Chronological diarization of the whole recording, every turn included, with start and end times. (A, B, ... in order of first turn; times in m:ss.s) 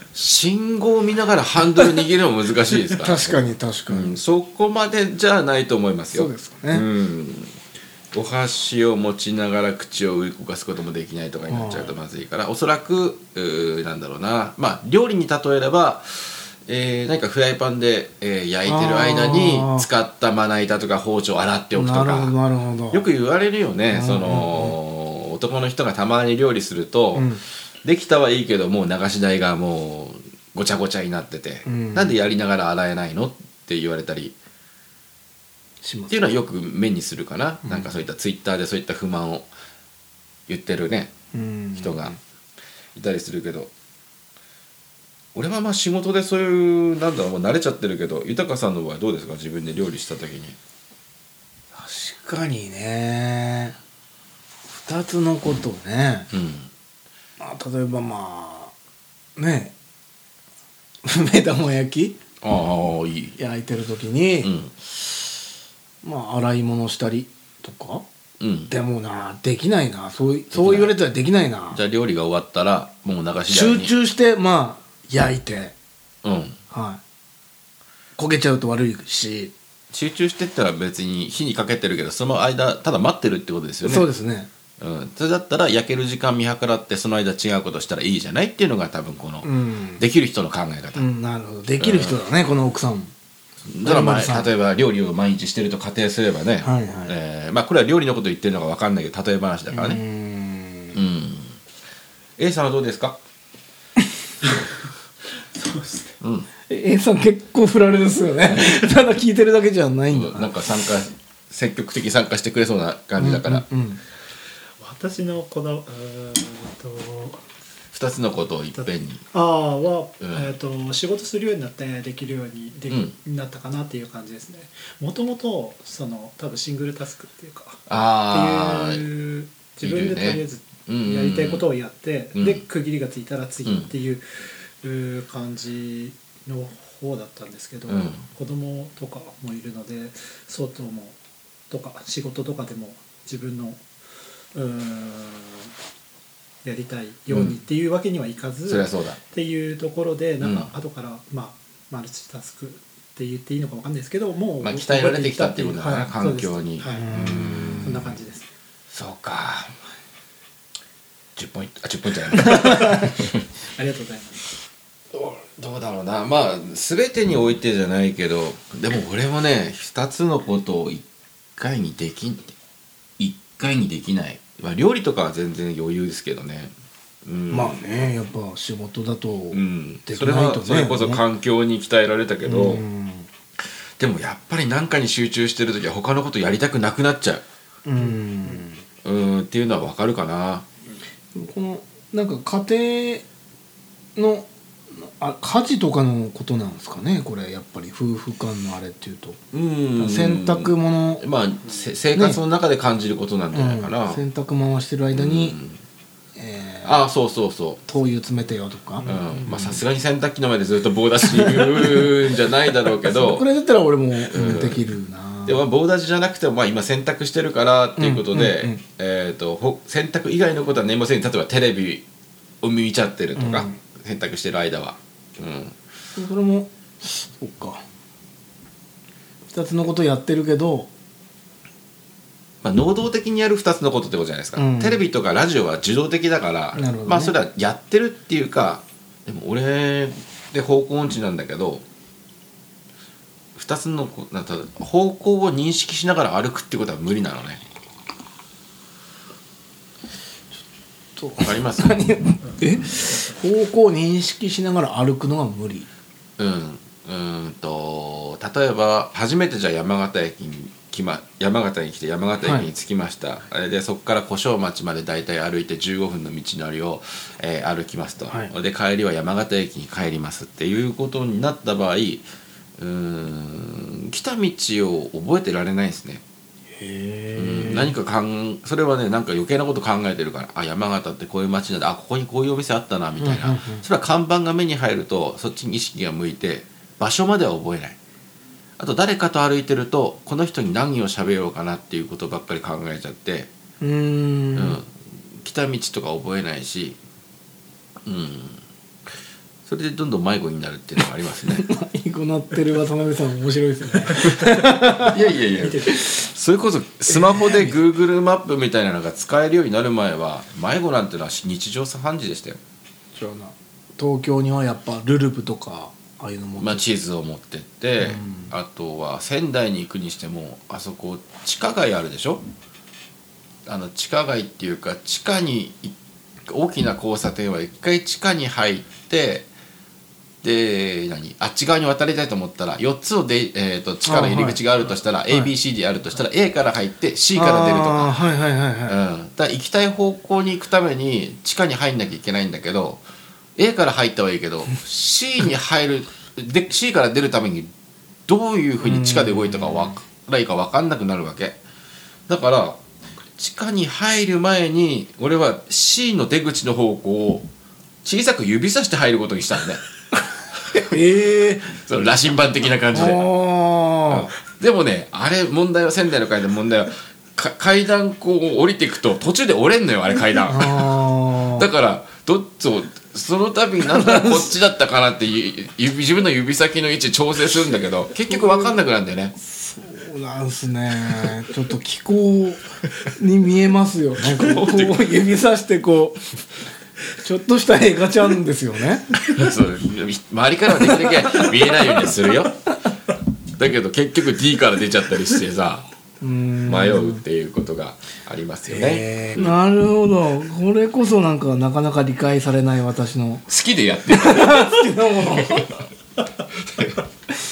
0:00.1-0:07.5 A
0:02.9-0:04.2 B
0:06.1-0:06.8 B
0:08.1-0:22.3 A
0:11.5-0:11.9 B
0:18.6-0:19.9 B
0:21.7-0:23.0 B
0:22.9-0:34.3 A
0:23.9-0:24.8 B
0:27.1-0:27.4 B
0:31.6-0:32.2 B
0:35.8-0:36.2 B
0:36.1-0:39.5 A
0:40.5-0:41.1 A
0:41.3-0:42.2 B
0:41.8-0:42.2 A
0:42.9-0:43.7 A
0:45.3-0:50.6 A
0:51.7-0:53.8 B
0:54.7-0:56.3 B
0:56.3-0:56.7 A
0:57.4-0:58.7 B
0:59.4-0:59.7 B
1:01.0-1:02.2 B
1:02.4-1:03.4 A
1:03.4-1:04.5 B
1:04.4-1:04.7 A
1:06.0-1:08.0 B
1:08.4-1:08.7 A
1:08.7-1:11.8 B
1:10.5-1:10.9 A
1:11.7-1:13.9 A
1:13.5-1:15.7 B
1:16.2-1:16.6 A
1:16.7-1:17.0 B
1:18.2-1:19.5 B
1:19.9-1:24.1 A
1:23.8-1:24.5 B
1:24.8-1:31.1 A
1:29.4-1:30.0 B
1:31.0-1:33.1 B
1:31.8-1:32.1 A
1:33.7-1:40.0 A
1:33.8-1:34.5 B
1:36.6-1:37.1 B
1:39.7-1:41.0 B
1:40.9-1:41.6 A
1:42.4-1:43.2 A
1:45.5-1:46.2 C
1:46.2-1:46.5 A
1:46.7-1:50.7 B
1:50.1-1:53.7 A
1:53.2-1:54.0 B
1:54.8-1:57.4 C
1:57.9-1:59.2 A
1:58.8-2:14.2 C
2:00.2-2:00.5 A
2:07.9-2:09.0 A
2:09.8-2:11.6 A
2:12.4-2:12.6 A
2:14.8-2:21.2 C
2:17.9-2:18.2 A
2:21.7-2:23.8 C
2:24.5-2:25.7 C
2:26.6-2:37.2 C
2:27.3-2:27.6 A
2:28.7-2:29.2 A
2:30.4-2:30.7 A
2:34.6-2:38.1 A
2:36.9-2:38.0 B
2:37.8-2:38.5 C
2:38.9-2:39.7 A
2:41.4-2:43.2 A
2:42.4-2:44.4 C
2:45.1-2:51.0 A
2:51.6-2:52.5 A
2:53.2-2:56.7 A
2:57.2-2:57.8 A
2:57.5-3:01.2 B
2:59.5-3:02.8 A
3:02.4-3:03.3 B
3:04.0-3:07.4 A
3:07.8-3:08.8 B
3:09.0-3:10.6 A
3:11.3-3:13.2 B
3:14.2-3:19.4 B
3:19.5-3:24.2 A
3:20.0-3:21.2 B
3:22.1-3:22.4 B
3:23.5-3:25.6 B
3:25.1-3:25.8 A
3:26.4-3:27.0 B
3:26.8-3:27.8 A
3:27.9-3:29.8 B
3:29.0-3:29.3 C
3:29.0-3:33.4 A
3:31.2-3:35.6 B
3:34.3-3:34.8 A
3:35.4-3:42.0 A
3:38.0-3:38.8 B
3:42.6-3:45.7 A
3:43.4-3:43.8 B
3:46.2-3:47.8 B
3:49.5-3:50.9 B
3:52.6-4:01.8 A
3:54.6-3:55.0 B
3:56.8-3:57.3 B
4:03.6-4:07.6 A
4:11.2-4:15.9 B
4:11.4-4:12.0 A
4:12.4-4:13.4 C
4:16.4-4:32.2 A
4:22.4-4:22.7 B
4:32.8-4:36.2 A
4:36.8-4:37.9 B
4:37.4-4:48.0 A
4:43.2-4:43.8 B
4:48.8-4:53.5 A
4:53.8-4:54.8 B
4:54.5-4:54.9 A
4:55.4-4:57.0 A
4:58.0-4:58.6 A
4:59.6-5:01.7 A
5:01.5-5:05.2 B
5:04.1-5:04.5 C
5:05.0-5:12.6 A
5:05.6-5:05.9 C
5:13.1-5:16.8 B
5:16.6-5:22.4 A
5:18.0-5:18.5 B
5:23.6-5:26.0 A
5:26.5-5:29.5 A
5:30.4-5:38.2 A
5:34.0-5:34.6 B
5:37.3-5:39.0 B
5:38.8-5:43.0 A
5:43.6-5:47.7 A
5:48.3-5:51.6 A
5:48.8-5:50.0 B
5:52.3-5:52.8 A
5:53.4-5:57.5 A
5:58.0-5:59.8 A
6:00.8-6:01.7 B
6:01.6-6:03.3 A
6:02.9-6:04.3 B
6:04.0-6:19.3 A
6:10.5-6:11.7 B
6:13.8-6:14.5 B
6:18.3-6:18.7 B
6:19.4-6:26.4 B
6:24.4-6:25.0 A
6:27.2-6:29.2 B
6:29.2-6:32.7 A
6:30.8-6:32.1 B
6:33.6-6:35.8 A
6:36.2-6:37.2 B
6:36.6-6:39.6 A
6:38.7-6:43.4 B
6:43.5-6:45.7 A
6:44.1-6:45.7 B
6:46.6-6:47.0 A